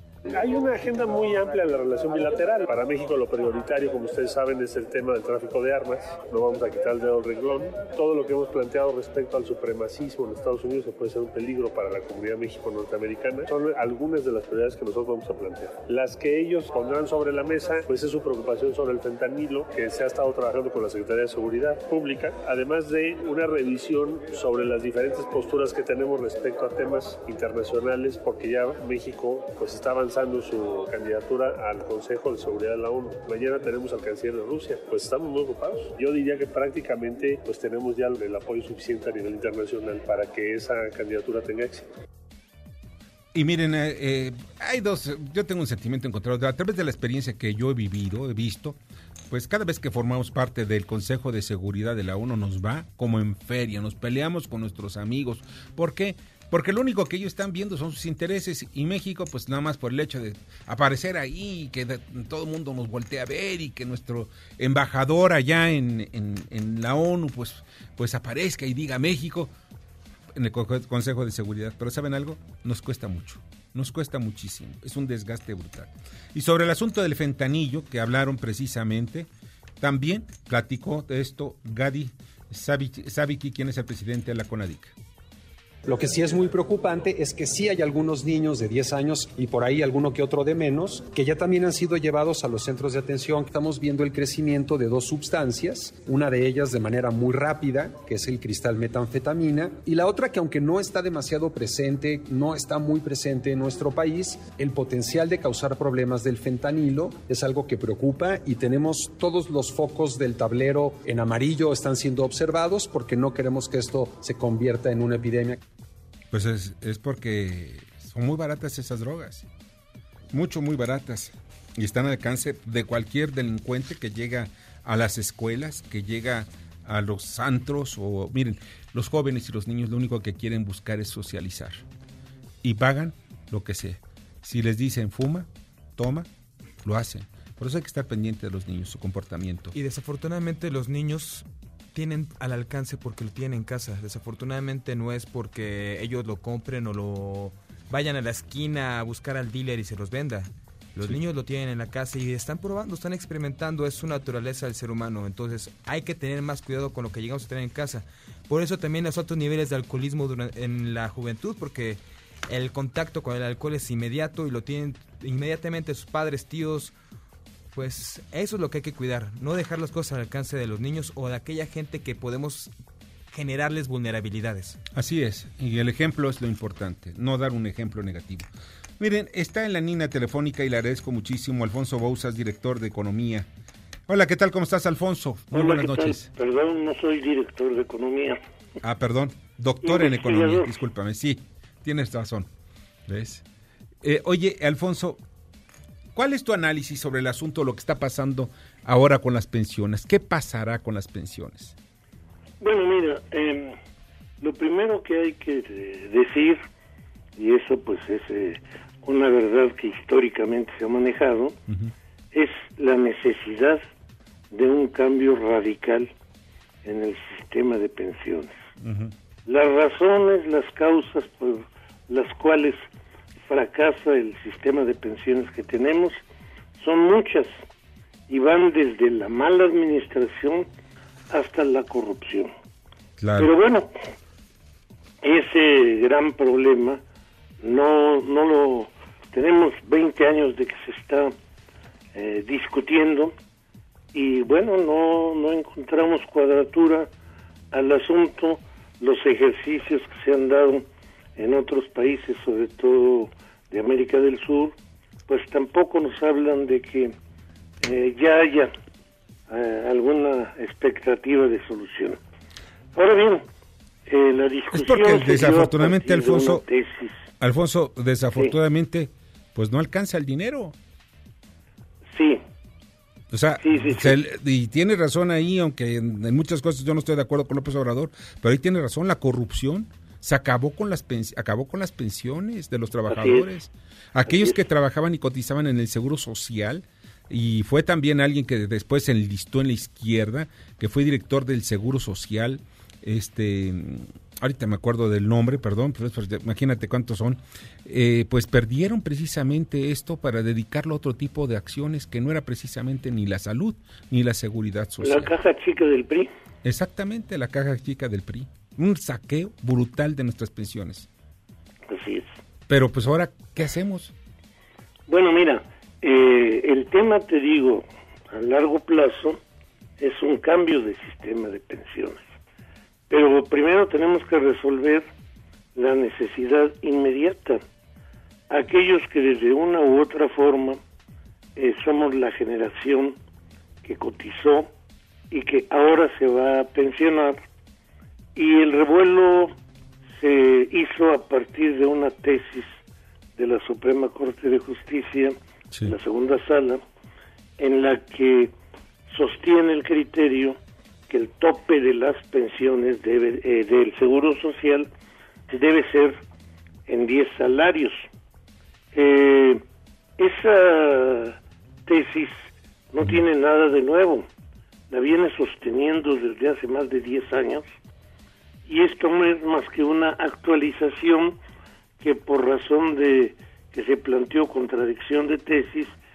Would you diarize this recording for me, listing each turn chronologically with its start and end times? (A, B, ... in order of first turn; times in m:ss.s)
0:00.3-0:41.9 A
0:43.3-0:48.8 B
0:49.3-1:09.5 B
1:10.4-1:19.3 B
1:19.8-1:24.9 B
1:25.8-1:55.6 C
1:56.3-1:59.5 B
2:00.3-2:11.8 B
2:12.6-2:16.3 B
2:16.8-2:19.7 B
2:19.7-2:46.9 D
2:47.7-2:52.7 D
2:53.3-2:54.8 D
2:55.0-2:58.5 B
2:59.0-3:03.5 B
3:04.1-3:06.2 B
3:05.5-3:08.4 E
3:08.8-3:12.5 B
3:09.8-3:10.7 E
3:13.1-3:13.4 B
3:14.0-3:15.2 B
3:16.1-3:21.8 B
3:22.6-3:23.8 E
3:24.4-3:26.6 E
3:27.4-3:31.5 E
3:32.3-3:33.8 E
3:34.5-3:36.1 E
3:36.8-3:38.5 E
3:38.8-3:39.1 B
3:39.5-3:42.8 E
3:43.5-3:46.2 E
3:46.8-3:47.6 E
3:48.3-3:50.6 E
3:51.3-3:52.5 E
3:53.2-3:53.5 B
3:53.4-3:53.9 E
3:55.2-3:57.0 E
3:57.6-4:01.3 E
4:02.1-4:03.3 E
4:04.1-4:07.1 E
4:07.7-4:10.8 E
4:11.4-4:14.7 E
4:15.3-4:17.1 E
4:17.8-4:18.7 E
4:19.5-4:22.2 E
4:23.0-4:23.4 E
4:24.1-4:27.1 E
4:24.7-4:26.6 B
4:27.4-4:30.8 B
4:32.1-4:32.4 E
4:33.3-5:05.3 B
4:33.6-4:34.2 E
4:43.1-4:43.5 E
4:44.2-4:44.6 E
5:05.0-5:06.3 E
5:06.6-5:11.1 B
5:11.9-5:12.3 E
5:12.7-5:14.1 B
5:15.1-5:19.4 E
5:20.0-5:22.2 E
5:23.1-5:25.0 E
5:25.8-5:27.6 E
5:28.5-5:30.8 E
5:31.6-5:33.2 E
5:33.8-5:34.7 E
5:35.3-5:37.4 E
5:38.4-5:39.5 E
5:40.2-5:42.8 E
5:43.4-5:46.8 E
5:47.6-5:48.5 E
5:49.1-5:50.6 E
5:51.1-5:54.9 E
5:55.5-5:56.2 E
5:56.9-5:58.0 E
5:58.9-5:59.6 E
6:00.2-6:04.3 E
6:04.9-6:07.6 E
6:08.7-6:11.3 E
6:12.0-6:16.0 E